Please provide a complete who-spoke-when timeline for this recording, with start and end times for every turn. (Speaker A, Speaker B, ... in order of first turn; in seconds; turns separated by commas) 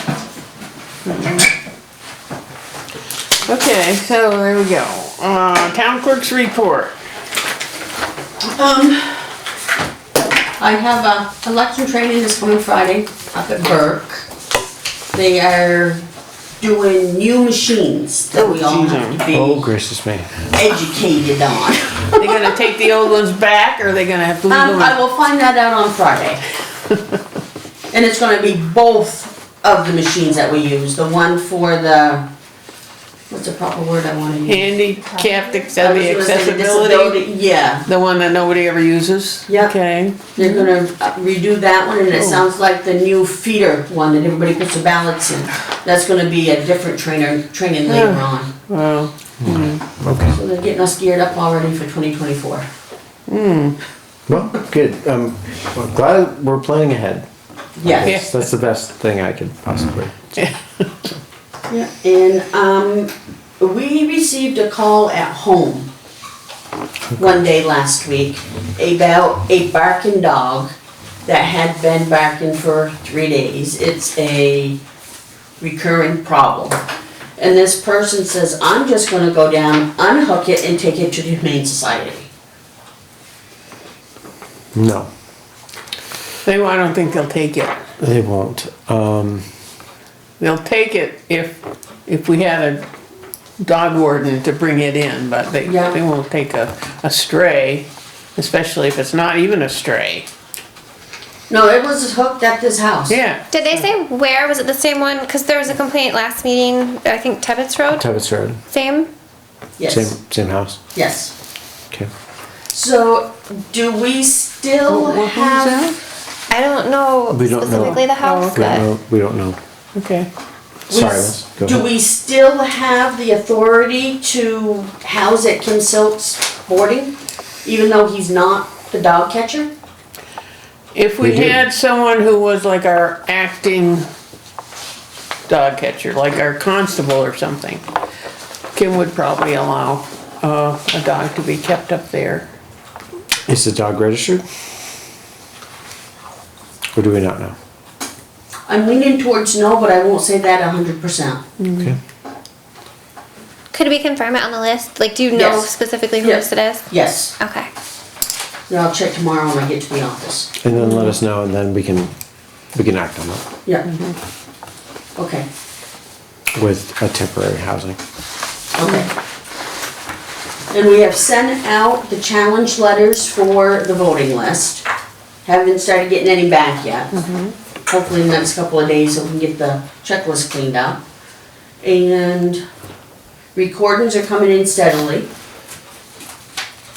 Speaker A: 1.0-1.5, Speaker A: 3.4-6.9, Speaker B: 8.4-9.3, Speaker B: 10.6-14.2, Speaker B: 15.1-16.0, Speaker B: 16.6-19.7, Speaker A: 18.3-19.2, Speaker C: 19.3-20.3, Speaker B: 20.4-22.4, Speaker A: 22.2-25.0, Speaker B: 24.5-26.4, Speaker B: 27.9-32.3, Speaker B: 33.3-34.6, Speaker A: 34.5-37.2, Speaker B: 35.7-37.8, Speaker A: 37.9-40.7, Speaker B: 39.5-39.7, Speaker B: 40.3-48.5, Speaker A: 42.1-42.4, Speaker A: 47.9-49.8, Speaker C: 49.4-50.4, Speaker B: 50.3-52.6, Speaker A: 53.3-53.8, Speaker C: 54.3-57.3, Speaker B: 57.8-58.2, Speaker C: 57.8-60.3, Speaker A: 60.4-60.9, Speaker B: 61.7-65.9, Speaker B: 67.2-70.7, Speaker B: 71.2-74.8, Speaker B: 75.6-76.8, Speaker B: 77.4-82.3, Speaker C: 84.7-85.1, Speaker A: 86.4-87.8, Speaker C: 88.0-89.5, Speaker A: 90.4-92.8, Speaker A: 93.6-100.3, Speaker B: 95.6-96.0, Speaker B: 101.5-103.2, Speaker A: 103.1-103.9, Speaker D: 103.5-108.1, Speaker C: 107.9-108.6, Speaker D: 108.7-109.1, Speaker B: 109.8-110.1, Speaker C: 109.9-110.8, Speaker B: 110.9-111.3, Speaker B: 112.7-115.9, Speaker A: 114.9-116.0, Speaker D: 116.5-118.8, Speaker C: 117.3-119.6, Speaker A: 118.2-118.7, Speaker A: 119.9-120.3, Speaker C: 120.9-121.8, Speaker B: 120.9-129.7, Speaker A: 130.9-134.0, Speaker C: 131.2-131.6, Speaker A: 135.5-137.8, Speaker A: 138.7-142.4, Speaker C: 143.5-144.4, Speaker C: 146.9-147.5, Speaker B: 148.7-151.4, Speaker A: 151.6-151.9, Speaker D: 153.7-156.9, Speaker B: 155.3-157.3, Speaker D: 157.4-157.7, Speaker B: 158.7-160.5, Speaker C: 160.6-162.1, Speaker A: 160.8-161.1, Speaker C: 162.7-163.4, Speaker A: 163.9-164.2, Speaker B: 165.2-165.5, Speaker C: 166.5-168.0, Speaker B: 168.7-169.1, Speaker B: 170.7-174.8, Speaker B: 175.4-177.1, Speaker A: 177.1-177.5, Speaker B: 177.9-181.0, Speaker B: 181.8-182.6, Speaker B: 183.5-185.3